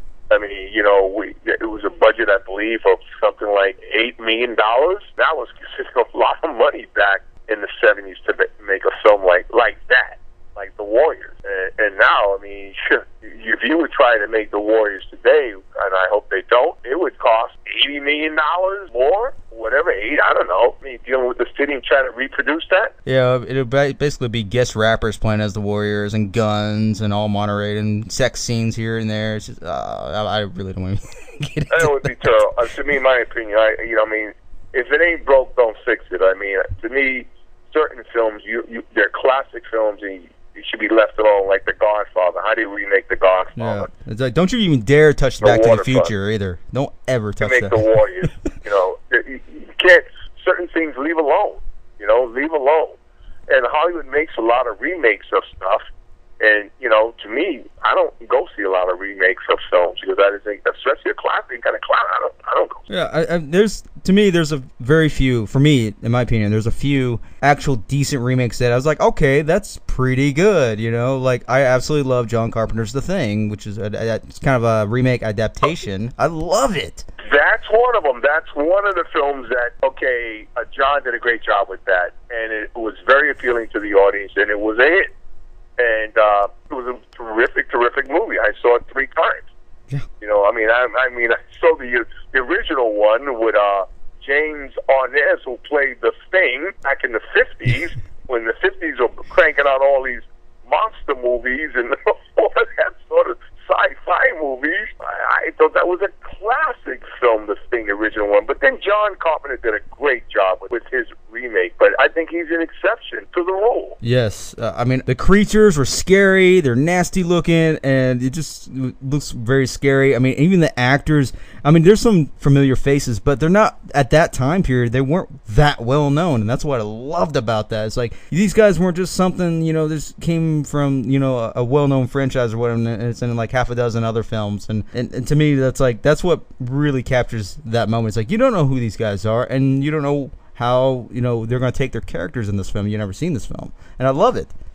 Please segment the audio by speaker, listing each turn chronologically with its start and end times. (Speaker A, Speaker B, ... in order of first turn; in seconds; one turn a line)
Speaker A: 0.3-22.9
Speaker B: 23.1-32.5
Speaker A: 31.7-43.9
Speaker B: 43.6-47.8
Speaker A: 45.4-46.1
Speaker A: 47.4-53.0
Speaker A: 53.5-55.8
Speaker A: 56.4-62.9
Speaker B: 62.9-77.1
Speaker A: 77.2-85.1
Speaker A: 85.8-89.5
Speaker A: 90.2-114.0
Speaker B: 114.0-144.5